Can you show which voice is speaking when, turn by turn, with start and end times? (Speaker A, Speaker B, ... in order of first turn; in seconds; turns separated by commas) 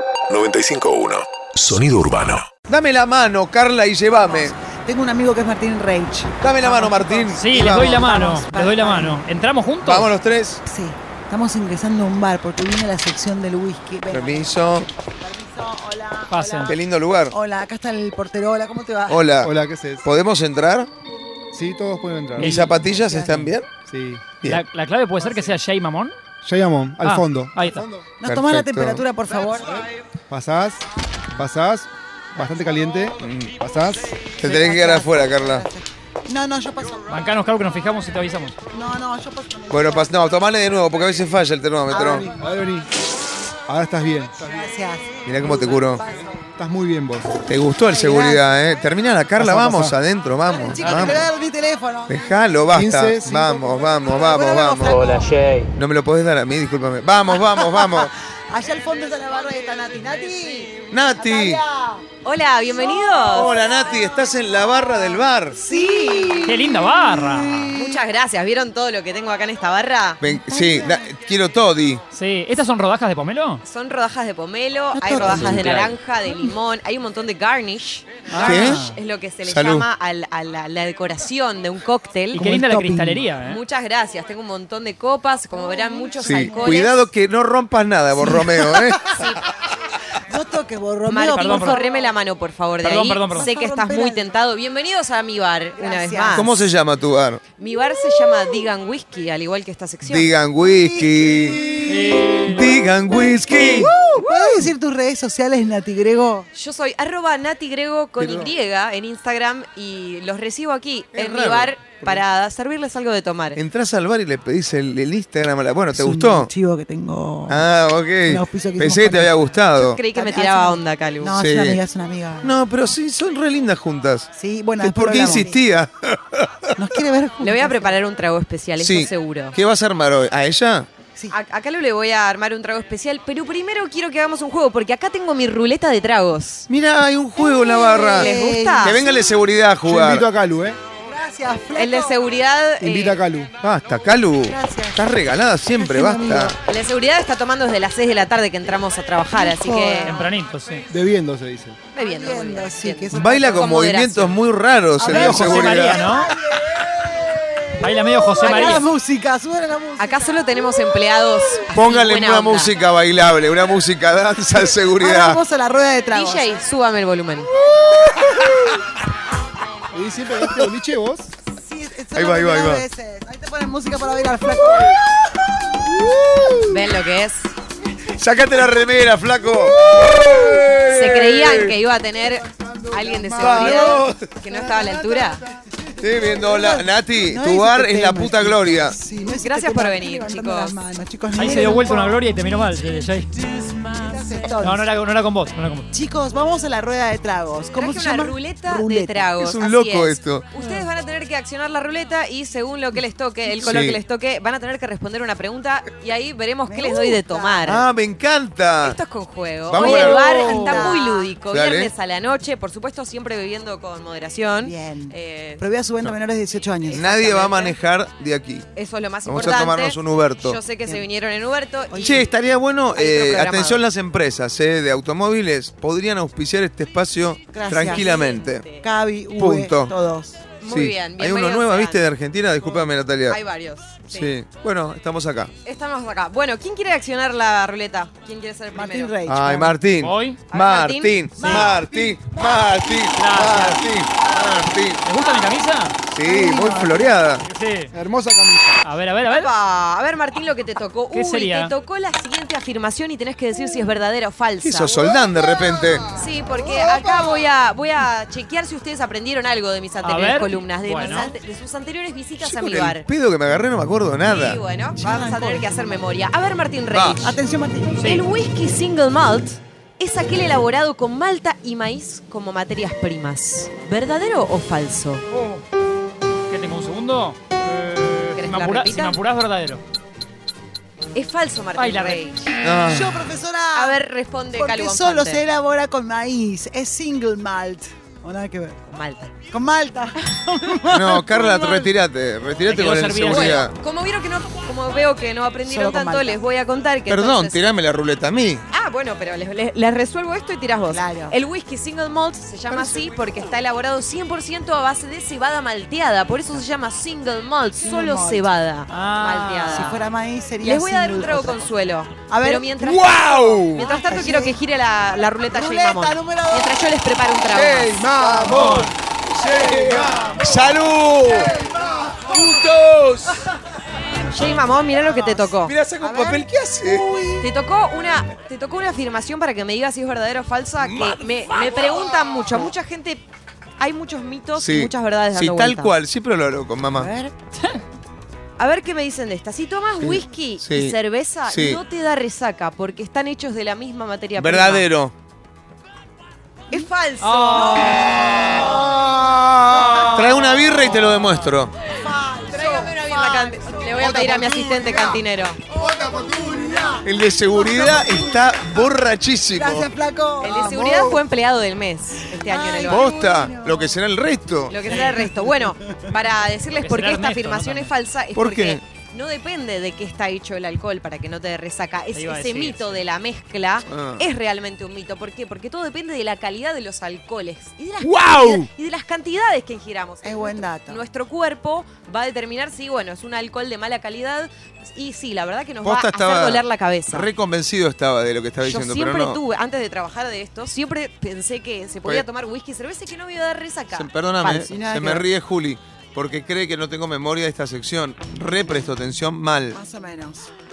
Speaker A: 0.3-2.5, Speaker B: 2.7-4.6, Speaker C: 4.2-9.2, Speaker B: 6.4-8.1, Speaker D: 7.4-10.1, Speaker B: 9.8-10.6, Speaker C: 10.7-14.6, Speaker B: 14.1-14.9, Speaker C: 15.2-16.8, Speaker D: 16.3-16.8, Speaker B: 16.7-17.4, Speaker C: 17.3-19.3, Speaker B: 19.1-19.5, Speaker E: 19.4-20.1, Speaker B: 20.0-20.9, Speaker E: 21.5-22.6, Speaker B: 22.4-23.7, Speaker D: 22.4-23.5, Speaker C: 22.7-23.5, Speaker E: 23.7-24.3, Speaker D: 24.4-26.2, Speaker E: 26.4-28.1, Speaker D: 27.0-27.8, Speaker C: 28.2-29.8, Speaker B: 28.2-29.1, Speaker E: 30.3-34.1, Speaker B: 33.2-33.5, Speaker B: 34.4-35.7, Speaker C: 34.4-37.1, Speaker D: 37.1-38.5, Speaker C: 38.7-40.1, Speaker B: 39.7-42.3, Speaker C: 41.9-42.4, Speaker E: 41.9-42.9, Speaker E: 43.7-44.6, Speaker C: 44.4-46.4, Speaker B: 45.2-46.0, Speaker E: 46.6-47.4, Speaker B: 47.4-51.3, Speaker C: 47.9-48.4, Speaker E: 49.4-50.0, Speaker C: 50.5-52.3, Speaker F: 50.8-51.2, Speaker B: 52.1-55.0, Speaker E: 52.7-53.9, Speaker C: 54.0-55.3, Speaker F: 54.8-55.7, Speaker B: 55.8-58.1, Speaker C: 57.3-62.1, Speaker B: 60.9-61.6, Speaker G: 62.2-63.5, Speaker B: 63.3-65.6, Speaker G: 65.6-66.6, Speaker C: 65.6-68.0, Speaker D: 66.5-67.7, Speaker G: 67.7-70.2, Speaker B: 70.2-72.0, Speaker C: 70.2-71.1, Speaker D: 72.1-73.6, Speaker G: 73.6-82.4, Speaker C: 74.9-75.6, Speaker F: 75.1-76.0, Speaker C: 78.3-79.0, Speaker B: 78.4-78.8, Speaker B: 79.4-79.9, Speaker D: 82.3-83.6, Speaker C: 82.3-83.2, Speaker G: 83.4-87.0, Speaker C: 85.5-86.9, Speaker B: 86.2-89.2, Speaker C: 88.2-89.0, Speaker G: 89.2-89.4, Speaker C: 90.3-92.0, Speaker G: 91.0-96.7, Speaker D: 91.3-91.8, Speaker D: 92.8-93.5, Speaker C: 93.3-94.3, Speaker C: 95.8-96.5, Speaker B: 96.3-97.4, Speaker G: 97.6-100.3, Speaker B: 100.0-101.8, Speaker C: 100.6-102.7, Speaker D: 101.9-102.8, Speaker B: 102.4-104.7, Speaker C: 103.5-106.5, Speaker G: 106.5-113.6, Speaker B: 108.2-108.5, Speaker B: 111.1-112.2, Speaker B: 113.5-116.5, Speaker C: 115.9-117.6, Speaker B: 117.5-120.0, Speaker C: 118.2-119.4, Speaker G: 119.8-121.4, Speaker C: 120.1-122.5, Speaker B: 121.4-121.8, Speaker B: 122.4-126.8, Speaker C: 124.3-125.6, Speaker C: 126.8-128.0, Speaker G: 127.4-129.6, Speaker B: 128.8-130.9, Speaker G: 131.3-136.7, Speaker B: 136.7-140.3, Speaker C: 137.4-139.3, Speaker G: 137.9-139.0, Speaker E: 139.8-140.8, Speaker C: 141.0-142.2, Speaker G: 141.8-143.2, Speaker E: 142.8-143.5, Speaker B: 143.6-146.5, Speaker C: 144.5-145.0, Speaker C: 145.8-146.6, Speaker G: 146.7-150.2, Speaker C: 149.3-150.2, Speaker D: 150.1-150.9, Speaker E: 150.9-151.8, Speaker G: 151.9-154.4, Speaker C: 152.0-153.8, Speaker B: 153.1-156.1, Speaker C: 155.0-160.6, Speaker D: 155.1-156.3, Speaker D: 157.8-158.9, Speaker G: 158.4-158.9, Speaker G: 160.0-162.7, Speaker B: 161.7-165.4, Speaker C: 165.0-166.6, Speaker G: 166.1-167.5, Speaker E: 169.9-171.3, Speaker C: 171.5-175.0, Speaker B: 172.1-172.9, Speaker B: 176.1-176.6, Speaker G: 176.7-177.5, Speaker B: 178.2-181.8, Speaker G: 180.9-185.4, Speaker E: 182.6-183.6, Speaker C: 183.2-184.0, Speaker B: 183.4-184.3, Speaker C: 184.5-185.4, Speaker B: 186.0-189.0, Speaker C: 186.3-192.3, Speaker G: 189.4-190.8, Speaker D: 191.4-193.7, Speaker C: 193.9-194.9, Speaker D: 194.6-195.9, Speaker C: 195.9-199.3, Speaker G: 197.7-207.9, Speaker B: 199.4-200.5, Speaker C: 200.6-200.9, Speaker B: 203.6-204.0, Speaker C: 206.7-207.8, Speaker B: 207.7-209.0, Speaker G: 208.8-215.7, Speaker B: 209.7-210.3, Speaker C: 209.8-211.3, Speaker D: 210.3-210.9, Speaker B: 211.5-211.9, Speaker C: 214.6-217.1, Speaker G: 216.8-217.8, Speaker B: 216.9-218.7, Speaker G: 218.7-222.3, Speaker B: 219.2-220.6, Speaker C: 221.9-222.3, Speaker B: 222.0-228.7, Speaker G: 222.9-223.8, Speaker C: 227.5-230.4, Speaker G: 227.7-228.9, Speaker B: 229.4-229.9, Speaker G: 230.6-232.0, Speaker B: 230.7-233.4, Speaker G: 233.2-234.3, Speaker B: 234.1-235.5, Speaker G: 235.6-239.1, Speaker C: 238.7-239.8, Speaker B: 239.3-245.0, Speaker D: 240.0-240.4, Speaker G: 240.5-241.2, Speaker D: 241.4-241.7, Speaker C: 241.4-242.3, Speaker D: 243.2-243.8, Speaker D: 245.0-246.0, Speaker B: 246.1-247.5, Speaker C: 246.2-247.2, Speaker D: 247.5-247.9, Speaker E: 247.9-248.8, Speaker D: 248.8-249.5, Speaker G: 249.3-255.0, Speaker D: 251.1-251.7, Speaker B: 254.6-256.1, Speaker G: 256.1-263.1, Speaker D: 260.0-261.3, Speaker B: 262.4-264.6, Speaker G: 264.2-267.4, Speaker C: 265.0-266.0, Speaker B: 266.9-267.3, Speaker C: 267.2-268.1, Speaker G: 267.9-275.3, Speaker D: 275.3-275.6, Speaker D: 276.5-279.8, Speaker G: 278.4-279.2, Speaker G: 281.1-282.5, Speaker D: 281.8-282.3, Speaker B: 282.6-283.2, Speaker C: 282.8-284.0, Speaker G: 283.7-285.4, Speaker C: 284.6-288.8, Speaker G: 288.9-289.3, Speaker C: 289.5-291.9, Speaker B: 290.9-293.7, Speaker D: 292.7-293.6, Speaker G: 293.3-297.6, Speaker C: 295.6-296.4, Speaker B: 297.1-298.6, Speaker G: 298.7-310.0, Speaker C: 300.9-301.4, Speaker B: 302.7-303.0, Speaker C: 307.8-308.5, Speaker D: 308.9-310.0, Speaker C: 309.7-311.7, Speaker G: 310.6-318.0, Speaker C: 312.3-312.8, Speaker B: 312.8-313.9, Speaker C: 313.7-314.6, Speaker C: 315.5-316.8, Speaker B: 317.6-318.8, Speaker E: 317.9-318.9, Speaker C: 318.0-318.9, Speaker D: 318.5-318.9, Speaker B: 319.4-321.6, Speaker C: 319.5-320.4, Speaker E: 319.6-320.6, Speaker E: 321.8-322.2, Speaker B: 322.2-323.4, Speaker G: 324.3-325.8, Speaker C: 325.0-327.5, Speaker B: 325.6-327.1, Speaker G: 327.4-333.2, Speaker B: 330.8-331.9, Speaker G: 333.8-335.9, Speaker B: 334.6-337.1, Speaker C: 336.9-337.3, Speaker G: 338.6-344.9, Speaker B: 340.0-341.0, Speaker B: 341.5-341.8, Speaker B: 344.4-345.1, Speaker G: 346.7-349.0, Speaker D: 347.2-348.8, Speaker C: 347.5-348.8, Speaker E: 348.9-349.6, Speaker D: 349.7-351.3, Speaker C: 349.8-350.1, Speaker B: 350.1-351.7, Speaker C: 352.0-354.4, Speaker G: 352.4-355.6, Speaker E: 354.1-355.1, Speaker E: 355.8-357.0, Speaker C: 355.9-358.3, Speaker B: 357.0-359.9, Speaker C: 359.5-360.8, Speaker G: 360.4-363.1, Speaker E: 360.6-361.2, Speaker C: 362.3-363.9, Speaker B: 362.9-364.9, Speaker G: 364.7-387.3, Speaker D: 364.9-365.2, Speaker C: 364.9-366.1, Speaker D: 366.8-367.9, Speaker B: 368.4-368.8, Speaker D: 372.1-373.0, Speaker B: 373.9-374.3, Speaker B: 378.0-378.7, Speaker C: 380.2-381.0, Speaker B: 385.8-389.4, Speaker G: 388.6-394.1, Speaker B: 393.9-399.8, Speaker C: 394.4-395.3, Speaker C: 399.7-400.5